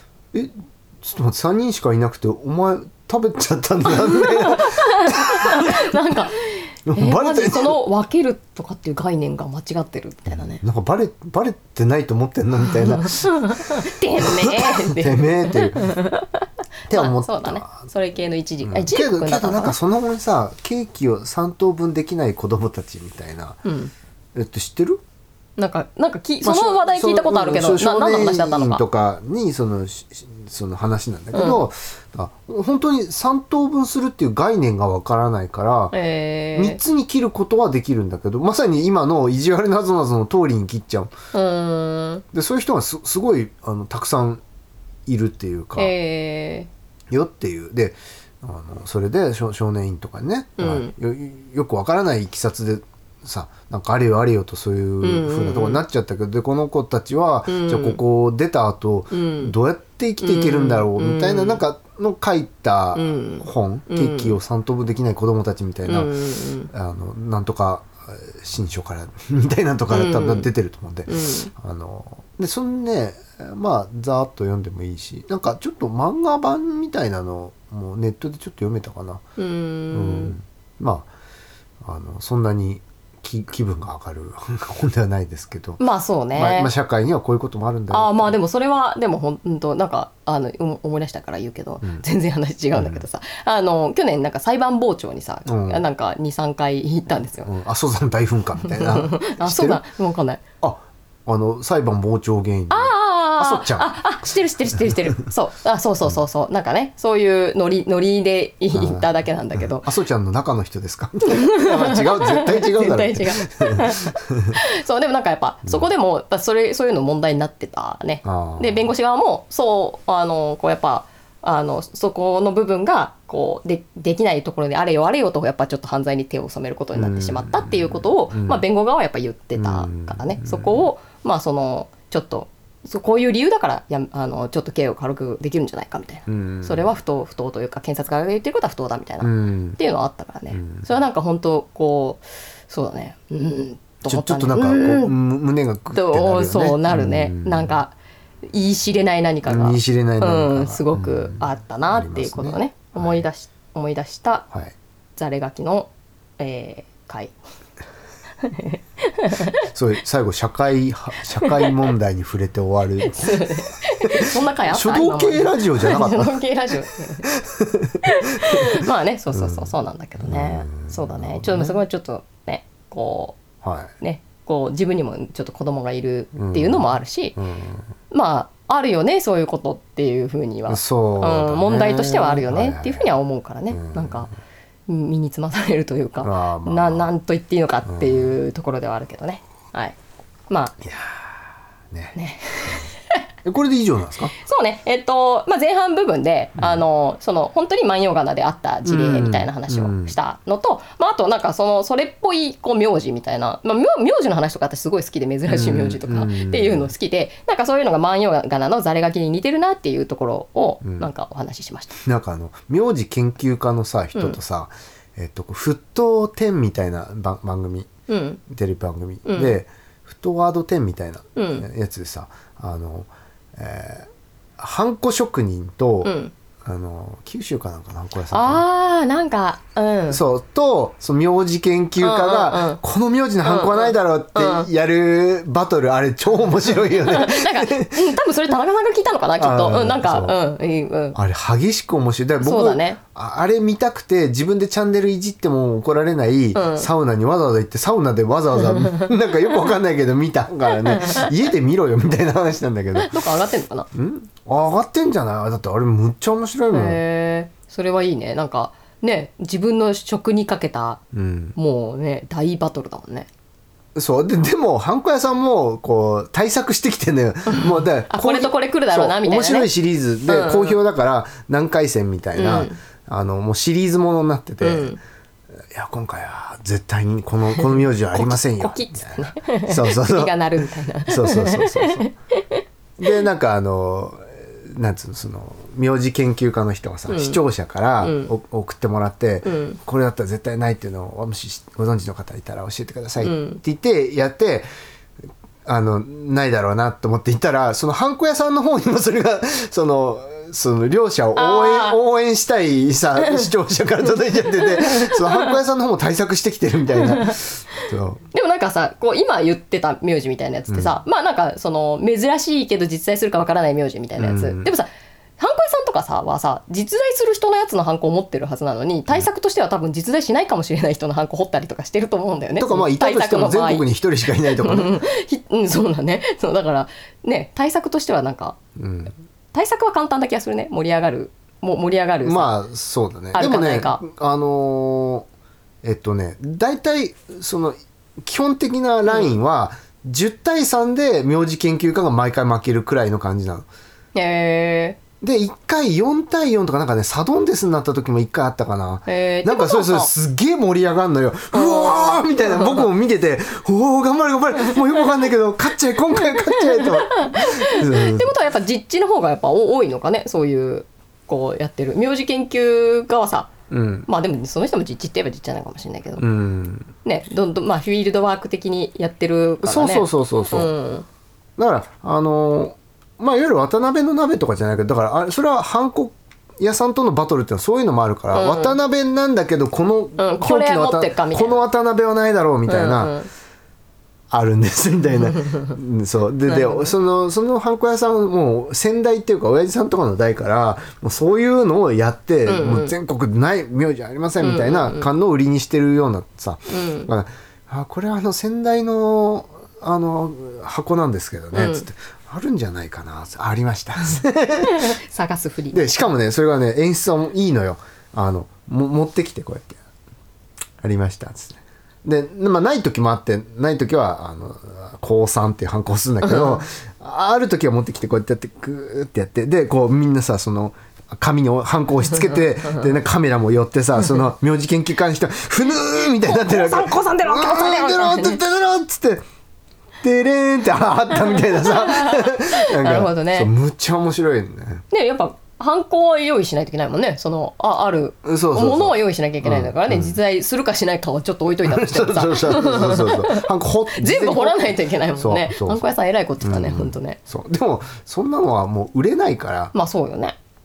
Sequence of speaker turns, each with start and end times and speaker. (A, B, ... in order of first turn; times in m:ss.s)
0:00.3-0:05.9 A
0:03.9-0:10.6 B
0:06.9-0:07.8 A
0:10.6-0:16.0 A
0:13.0-0:19.8 B
0:16.9-0:17.8 A
0:18.6-0:23.6 A
0:23.6-0:23.9 B
0:24.3-0:25.0 A
0:25.6-0:28.8 B
0:26.4-0:36.0 A
0:31.3-0:31.7 B
0:35.9-0:36.8 B
0:36.6-0:41.1 A
0:41.3-0:42.2 B
0:42.3-0:44.4 A
0:45.1-0:45.9 A
0:45.8-0:46.7 B
0:47.1-1:06.1 A
0:50.6-0:50.9 B
0:55.0-0:55.8 B
0:57.5-0:58.0 B
0:59.1-0:59.5 B
1:00.2-1:01.6 B
1:03.0-1:04.4 B
1:05.8-1:06.7 B
1:06.7-1:19.2 A
1:09.9-1:10.5 B
1:11.1-1:11.5 B
1:19.4-1:20.4 B
1:19.9-1:21.1 A
1:21.8-1:25.8 A
1:25.8-1:26.7 B
1:26.3-1:28.3 A
1:27.9-1:37.5 B
1:32.8-1:33.0 A
1:35.5-1:35.8 A
1:37.4-1:39.8 A
1:38.6-1:40.4 B
1:40.6-1:43.9 A
1:42.7-1:49.9 B
1:48.7-1:54.6 A
1:51.3-2:25.1 B
1:58.2-1:58.9 A
2:07.0-2:08.6 A
2:09.6-2:10.9 A
2:16.3-2:16.9 A
2:19.2-2:19.8 A
2:20.5-2:20.9 A
2:24.0-2:27.8 A
2:25.9-2:27.9 B
2:28.5-2:34.5 B
2:29.5-2:33.3 A
2:35.2-2:37.4 B
2:38.4-2:39.6 B
2:39.6-2:46.4 A
2:41.4-2:41.8 B
2:43.0-2:47.3 B
2:47.3-2:48.8 A
2:48.0-2:53.4 B
2:49.3-2:51.8 A
2:53.6-2:53.9 A
2:54.0-2:57.4 B
2:56.4-2:57.9 A
2:58.1-3:04.3 B
3:00.7-3:03.1 A
3:03.7-3:04.3 A
3:04.9-3:10.0 B
3:06.2-3:07.1 A
3:07.9-3:08.3 A
3:10.5-3:10.8 B
3:10.8-3:11.3 A
3:11.9-3:12.2 A
3:12.2-3:13.2 B
3:13.4-3:14.3 A
3:14.4-3:32.0 B
3:18.8-3:20.2 A
3:25.5-3:26.9 A
3:30.8-3:31.1 A
3:32.0-3:37.9 A
3:38.1-3:38.4 B
3:38.5-3:48.6 A
3:39.3-3:39.6 B
3:41.4-3:41.7 B
3:46.0-3:46.3 B
3:48.3-3:50.2 B
3:50.1-3:58.2 A
3:52.0-3:52.8 B
3:53.4-3:54.7 B
3:56.8-4:01.2 B
3:59.4-4:00.4 A
4:01.2-4:13.2 A
4:02.4-4:03.0 B
4:06.5-4:06.9 B
4:10.9-4:11.3 B
4:13.0-4:13.9 B
4:13.9-4:17.0 A
4:16.7-4:21.0 B
4:21.1-4:21.6 A
4:21.6-4:23.3 B
4:24.0-4:35.0 A
4:27.5-4:29.7 B
4:30.3-4:30.8 B
4:32.4-4:32.8 B
4:34.6-4:35.0 B
4:35.7-4:40.4 A
4:37.6-4:42.6 B
4:41.1-4:42.1 A
4:43.0-4:54.7 A
4:47.1-4:47.4 B
4:48.0-4:48.3 B
4:49.4-4:49.8 B
4:53.2-4:53.6 B
4:55.7-5:08.2 A
5:01.4-5:02.0 B
5:03.2-5:03.5 B
5:04.4-5:05.6 B
5:07.0-5:07.4 B
5:08.3-5:14.9 B
5:10.7-5:11.0 A
5:14.2-5:14.7 A
5:15.4-5:23.8 B
5:22.6-5:25.0 A
5:24.4-5:28.6 B
5:28.8-5:29.1 A
5:29.5-5:32.5 B
5:32.2-5:35.3 A
5:33.3-5:34.0 B
5:35.8-5:43.7 A
5:39.1-5:39.3 B
5:44.1-5:45.0 B
5:45.2-5:58.4 A
5:49.1-5:50.1 B
5:51.5-5:52.9 B
5:56.2-6:03.5 B
6:03.7-6:04.1 A
6:04.1-6:06.3 B
6:06.2-6:06.9 A
6:07.0-6:11.1 B
6:09.6-6:10.7 A
6:11.6-6:23.2 A
6:18.3-6:18.8 B
6:20.2-6:21.6 B
6:22.7-6:23.3 B
6:24.3-6:45.0 A
6:25.4-6:25.7 B
6:26.5-6:26.9 B
6:32.5-6:32.9 B
6:34.4-6:35.1 B
6:36.7-6:37.1 B
6:41.5-6:41.8 B
6:44.6-6:46.1 B
6:45.7-6:49.8 A
6:50.8-7:09.2 A
6:56.3-6:56.6 B
7:06.2-7:08.4 B
7:10.0-7:14.8 A
7:11.1-7:13.5 B
7:14.9-7:27.2 B
7:18.2-7:20.2 A
7:21.6-7:25.8 A
7:26.4-7:29.7 A
7:29.7-7:30.4 B